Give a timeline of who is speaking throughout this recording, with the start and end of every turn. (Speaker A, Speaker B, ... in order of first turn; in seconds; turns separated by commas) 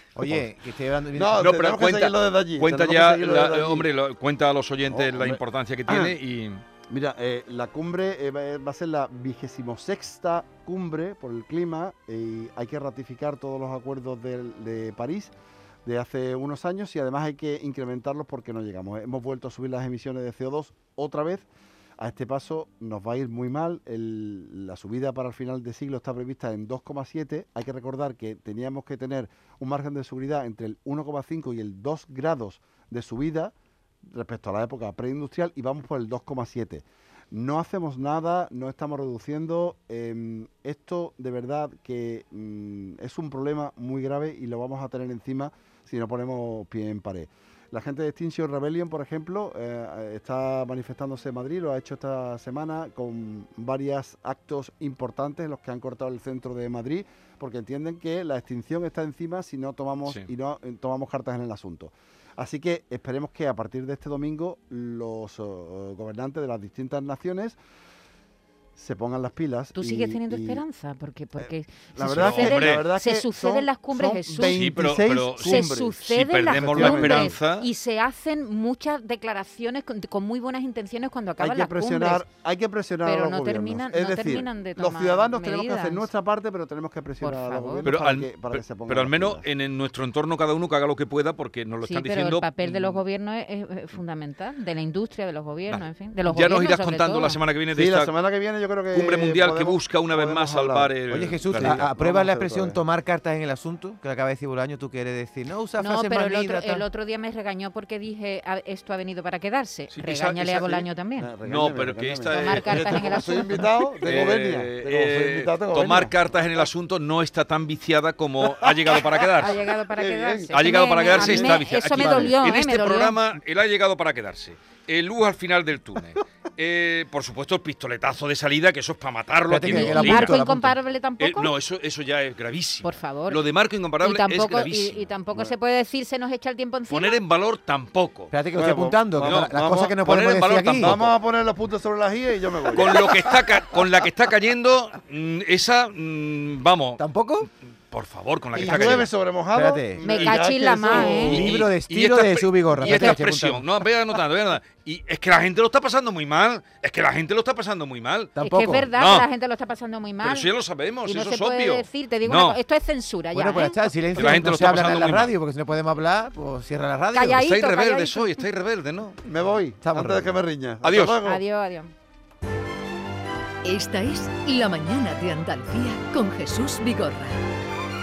Speaker A: 0.1-1.6, Speaker B: 1.1-3.9, Speaker C: 1.4-6.6, Speaker B: 4.9-6.2, Speaker B: 6.9-15.3, Speaker B: 15.8-21.5, Speaker B: 22.0-33.5, Speaker B: 34.0-67.6, Speaker B: 68.8-70.6, Speaker D: 69.7-74.6, Speaker B: 71.4-77.4, Speaker C: 72.0-72.9, Speaker C: 74.4-77.7, Speaker D: 75.4-82.2, Speaker B: 81.4-89.5, Speaker D: 83.0-86.1, Speaker D: 87.2-87.9, Speaker C: 87.8-93.0, Speaker D: 91.8-97.4, Speaker C: 95.7-98.1, Speaker B: 97.7-100.9, Speaker C: 98.9-101.8, Speaker A: 101.1-106.8, Speaker B: 101.5-102.8, Speaker D: 105.8-111.3, Speaker C: 109.9-110.9, Speaker B: 111.2-116.1, Speaker C: 111.4-113.4, Speaker D: 112.3-113.7, Speaker C: 114.0-119.6, Speaker B: 118.4-120.5, Speaker D: 119.4-123.2, Speaker C: 120.5-130.4, Speaker B: 121.1-121.5, Speaker A: 122.0-122.3, Speaker A: 129.5-130.7, Speaker D: 129.6-131.5, Speaker C: 131.2-135.1, Speaker D: 132.8-133.5, Speaker D: 134.0-137.2, Speaker C: 136.9-138.3, Speaker A: 138.3-141.0, Speaker B: 138.5-140.0, Speaker C: 139.2-141.1, Speaker B: 140.8-143.3, Speaker C: 142.7-147.0, Speaker A: 147.0-147.5, Speaker C: 147.9-149.1, Speaker B: 148.5-151.5, Speaker A: 148.8-150.0, Speaker D: 150.0-151.4, Speaker C: 150.9-159.3, Speaker A: 151.2-153.7, Speaker D: 152.8-153.2, Speaker A: 158.4-158.9, Speaker D: 158.4-160.5, Speaker C: 160.2-162.6, Speaker D: 161.0-163.9, Speaker A: 163.3-167.4, Speaker C: 164.1-165.3, Speaker D: 167.1-168.4, Speaker C: 167.4-169.2, Speaker B: 169.2-171.4, Speaker A: 169.8-170.4, Speaker C: 170.8-171.2, Speaker D: 171.2-171.9, Speaker E: 173.6-177.4